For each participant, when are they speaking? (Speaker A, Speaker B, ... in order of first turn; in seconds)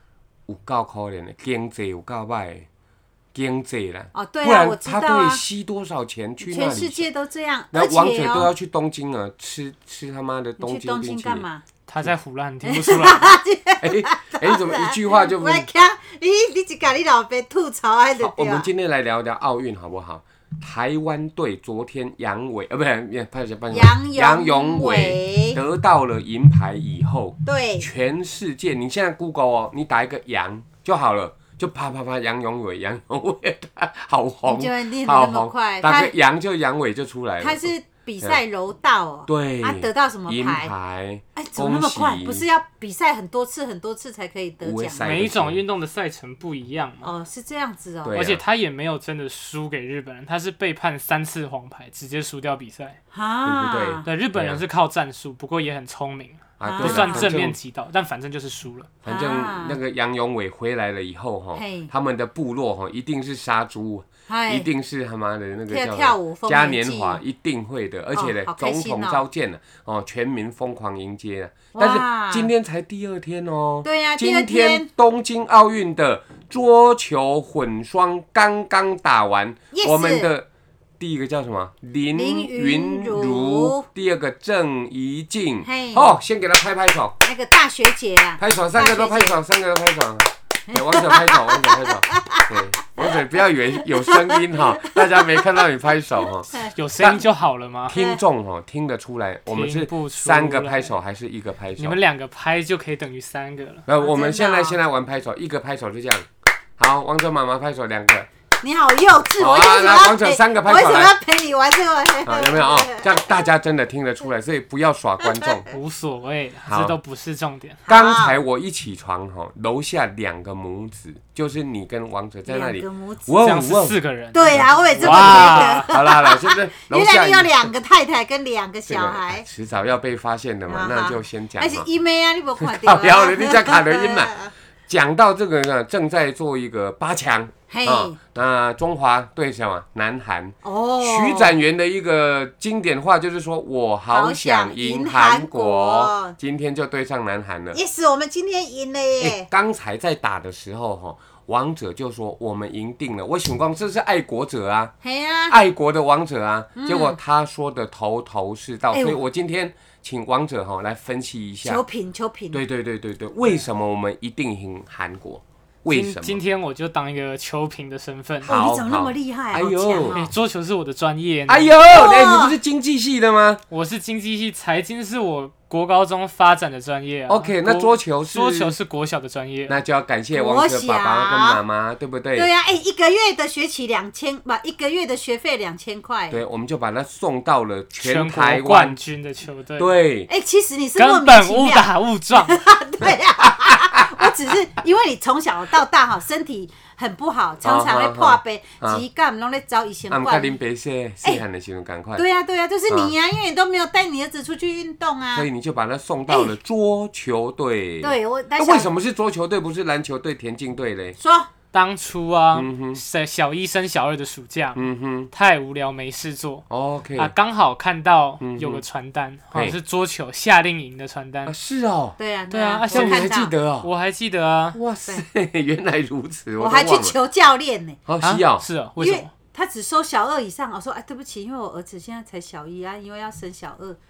Speaker A: 0.5-2.7, 3.3-7.1, 7.7-11.4, 13.8-15.7, 18.2-38.4, 39.3-42.4, 44.6-45.6, 48.0-48.4, 53.4-54.6, 56.6-57.6, 59.0-80.5, 81.0-87.2, 88.4-97.2, 97.9-102.0, 103.8-108.3, 109.4-111.1, 112.2-115.7, 116.7-116.9, 117.9-124.0, 124.5-127.7, 128.9-131.9, 132.6-147.8, 149.2-154.9, 155.5-161.8, 162.5-166.4, 168.4-170.2, 171.5-173.6, 177.3-178.7, 179.7-182.5, 186.3-189.0, 189.8-190.3, 193.4-194.2, 197.6-199.0, 200.1-202.2, 205.3-211.2, 212.5-213.0, 214.7-215.3, 216.7-217.3, 218.4-218.8, 221.4-222.2, 222.9-223.9, 224.7-227.2, 228.1-228.6
Speaker B: 4.1-5.4, 6.4-8.5, 10.6-11.6, 12.6-18.7, 23.7-25.6, 27.4-27.9, 34.5-36.1, 37.4-40.7, 41.4-45.0, 47.0-48.2, 53.1-54.0, 56.6-57.3, 59.1-59.8, 61.5-61.9, 64.3-64.7, 65.7-67.2, 68.1-69.2, 71.7-72.5, 73.8-74.9, 79.7-80.3, 82.1-83.8, 85.6-86.2, 87.2-89.4, 90.7-92.4, 94.1-94.6, 95.1-95.4, 97.9-98.2, 104.0-104.8, 108.6-113.5, 115.2-115.6, 117.9-118.4, 122.5-123.4, 124.3-129.4, 130.7-134.5, 137.7-138.2, 140.6-141.6, 144.1-146.3, 147.7-149.5, 155.0-155.6, 156.8-157.2, 158.9-159.2, 161.6-162.6, 168.4-170.2, 171.9-172.5, 180.3-181.6, 182.3-186.4, 190.3-200.6, 202.2-205.5, 206.3-206.5, 208.0-208.9, 211.2-211.5, 222.2-223.5, 226.6-228.0, 229.0-234.0
Speaker C: 11.9-13.3, 45.0-47.1, 48.1-53.0, 54.0-58.9, 96.7-97.9, 99.5-100.9, 101.8-103.8, 115.7-117.8, 123.4-125.9, 165.9-168.5, 170.1-171.7, 173.7-179.8, 188.0-189.9, 191.0-192.6, 211.7-216.7, 217.2-221.5, 222.5-224.8, 228.2-229.3